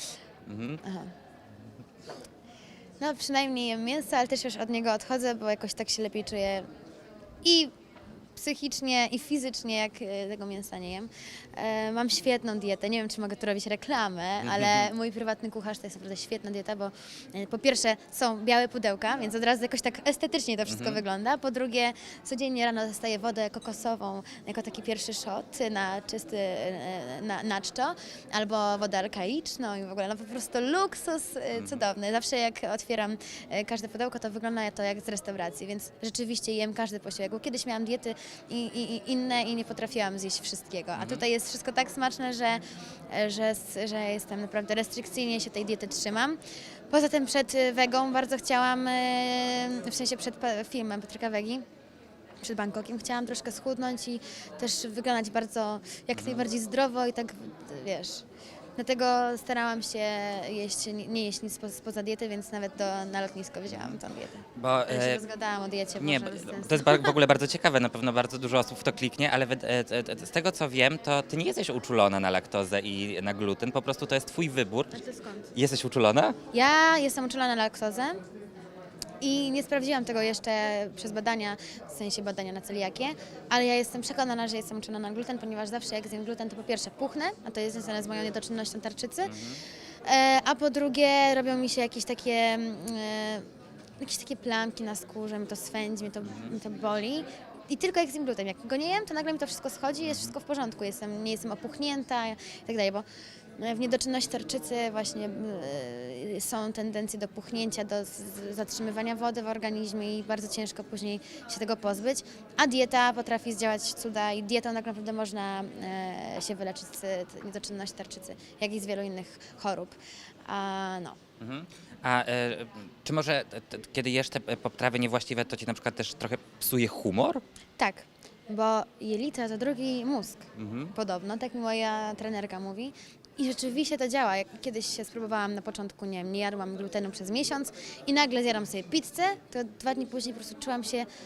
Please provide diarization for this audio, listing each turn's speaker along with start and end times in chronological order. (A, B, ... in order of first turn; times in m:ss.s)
0:00.4-0:00.8 A
0:00.8-0:01.1 B
0:03.0-0:06.7 B
0:07.4-0:07.7 B
0:08.4-0:46.4 B
0:14.4-0:14.9 A
0:20.6-0:21.0 A
0:31.5-0:31.8 A
0:40.9-0:41.3 A
0:46.9-0:51.6 B
0:52.4-0:58.2 B
0:56.1-0:56.5 A
0:58.8-1:07.1 B
1:03.7-1:04.0 A
1:04.5-1:05.2 A
1:06.0-1:15.0 A
1:14.9-1:15.5 B
1:15.5-1:16.4 A
1:16.5-1:18.2 B
1:19.2-1:29.3 B
1:29.2-1:29.6 A
1:30.0-1:33.5 B
1:34.0-1:43.0 B
1:36.2-1:36.6 A
1:40.0-1:40.4 A
1:43.6-2:01.2 B
2:01.4-2:07.4 A
2:07.8-2:21.1 B
2:10.6-2:10.9 A